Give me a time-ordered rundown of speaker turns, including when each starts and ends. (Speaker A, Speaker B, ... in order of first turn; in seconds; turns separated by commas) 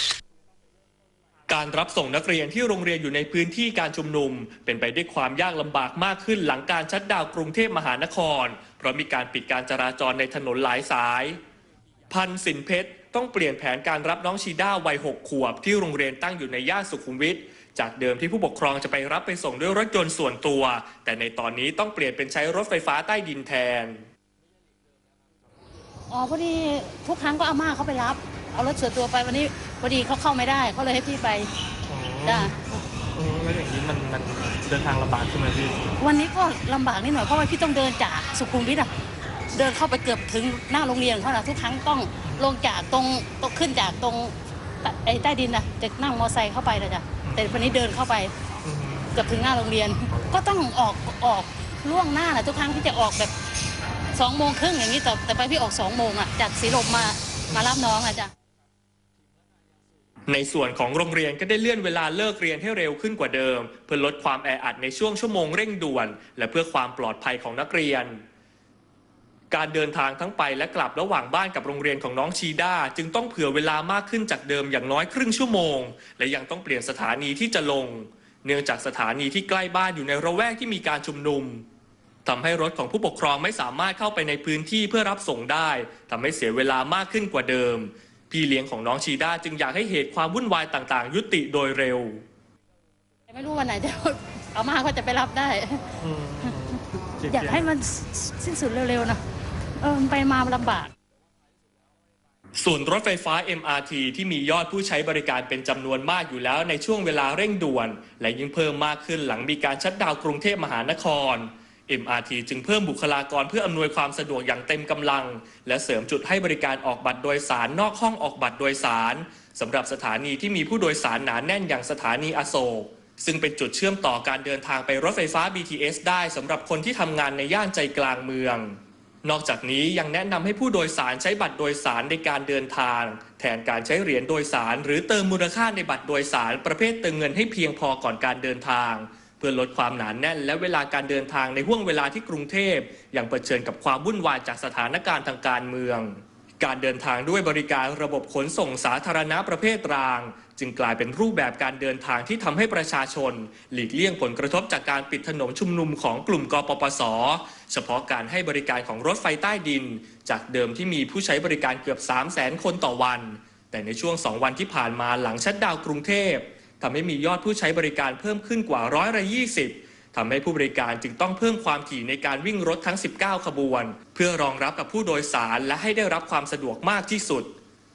Speaker A: 1.5-11.4, Speaker A: 12.1-24.0, Speaker B: 26.1-31.5, Speaker A: 31.9-35.9, Speaker B: 32.2-32.6, Speaker B: 36.0-38.9, Speaker B: 39.5-48.3, Speaker A: 47.2-47.7, Speaker A: 48.6-49.1, Speaker B: 49.1-53.3, Speaker B: 54.1-58.3, Speaker A: 60.3-68.2, Speaker A: 69.5-81.6, Speaker A: 82.2-92.2, Speaker B: 93.3-96.6, Speaker A: 96.0-97.7, Speaker B: 97.3-99.2, Speaker B: 99.8-100.9, Speaker A: 102.5-177.5